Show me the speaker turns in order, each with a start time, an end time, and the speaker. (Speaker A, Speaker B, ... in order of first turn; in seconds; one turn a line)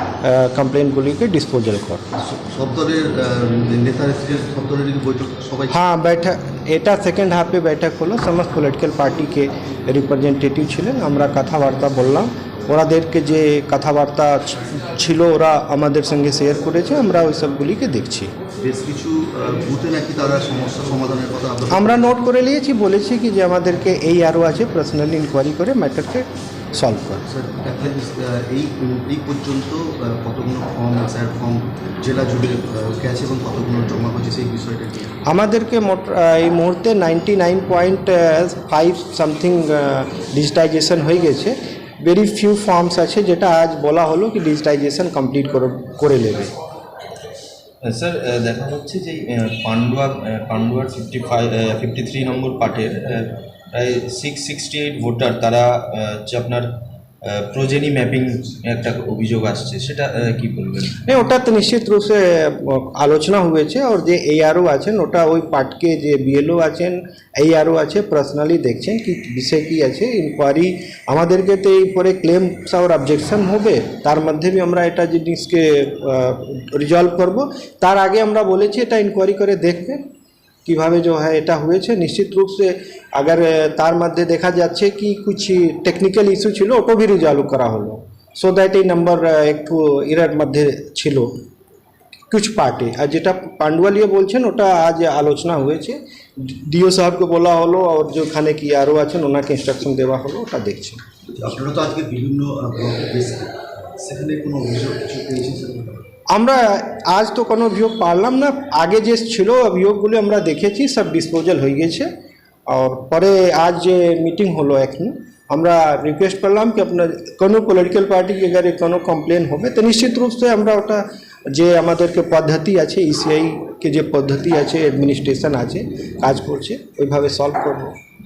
Speaker A: 0.2-2.0
Speaker B: 2.2-5.8
Speaker A: 5.7-18.3
Speaker B: 18.6-22.1
Speaker A: 21.7-27.2
Speaker B: 27.2-35.2
Speaker A: 35.3-46.5
Speaker C: 47.8-61.0
Speaker A: 61.0-80.0
Speaker A: 80.7-91.3
Speaker A: 92.3-96.0
Speaker A: 96.5-101.0
Speaker B: 101.4-106.0
Speaker A: 106.3-112.1
Speaker A: 112.7-127.9